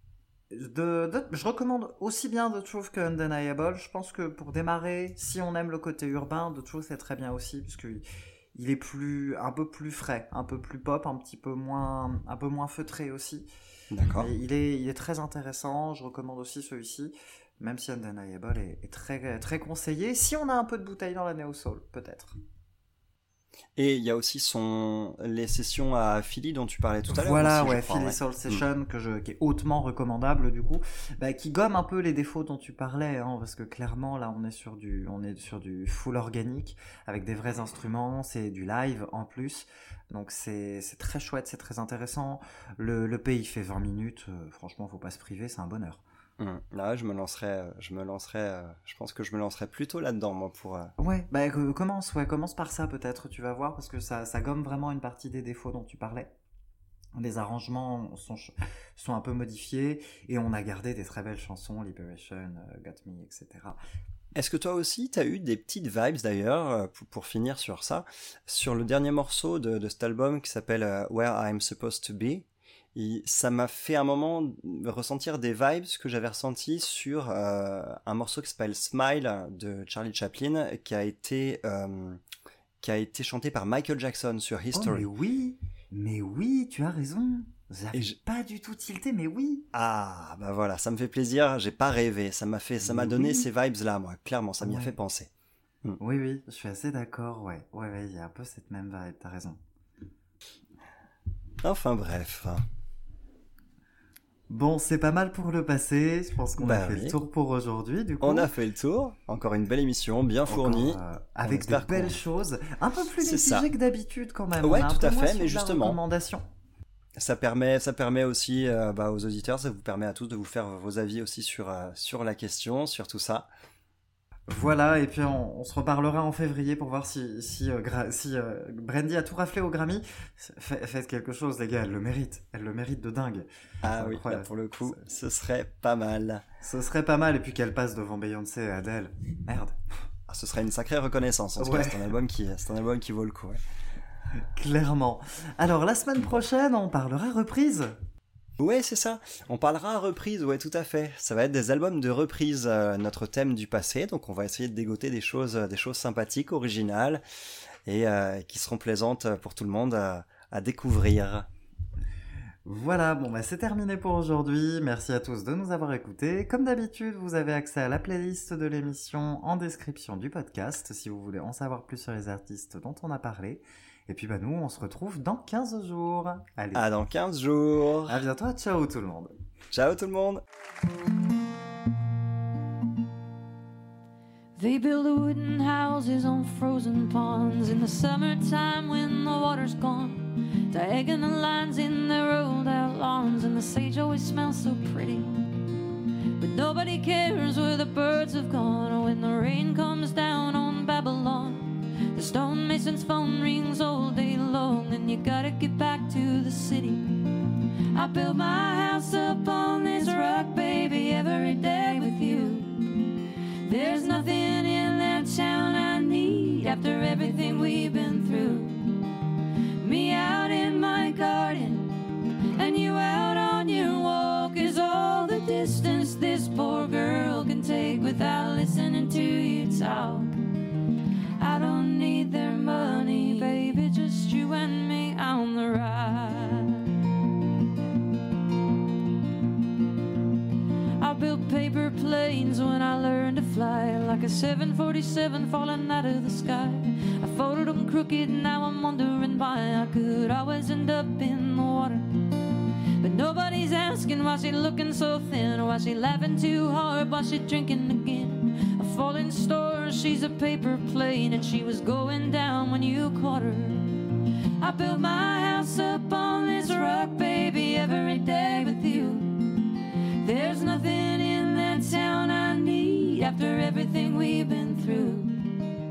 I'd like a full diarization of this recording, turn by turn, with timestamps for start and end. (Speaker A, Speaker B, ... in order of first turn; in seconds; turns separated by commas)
Speaker A: 0.5-8.0, Speaker A: 8.6-13.5, Speaker B: 13.9-14.3, Speaker A: 14.2-22.4, Speaker B: 23.8-28.6, Speaker A: 27.1-46.0, Speaker B: 46.4-50.9, Speaker A: 51.0-56.3, Speaker A: 57.1-63.8, Speaker B: 64.3-82.2, Speaker B: 82.8-85.1, Speaker A: 84.7-89.7, Speaker B: 89.7-95.3, Speaker A: 92.8-93.4, Speaker A: 94.6-94.9, Speaker A: 96.0-99.6, Speaker B: 101.6-102.6, Speaker A: 104.5-108.5, Speaker B: 106.6-107.2, Speaker B: 108.2-112.2, Speaker A: 110.5-116.4, Speaker B: 113.2-113.7, Speaker B: 114.6-116.0, Speaker B: 117.2-123.5, Speaker A: 124.5-135.0, Speaker B: 133.8-136.4, Speaker A: 136.6-139.8, Speaker B: 140.3-143.6, Speaker A: 141.6-142.0, Speaker A: 144.5-147.9, Speaker B: 148.6-157.2, Speaker B: 157.9-161.5, Speaker A: 162.6-176.9, Speaker B: 176.7-178.2, Speaker A: 178.1-179.3, Speaker B: 179.7-180.4, Speaker C: 184.6-195.4, Speaker C: 196.4-207.2, Speaker C: 207.9-213.1, Speaker C: 213.6-219.1, Speaker C: 219.8-222.0, Speaker C: 222.5-230.3, Speaker C: 231.4-236.9, Speaker C: 241.0-252.2, Speaker C: 253.0-264.0, Speaker C: 264.6-269.6, Speaker C: 270.2-275.5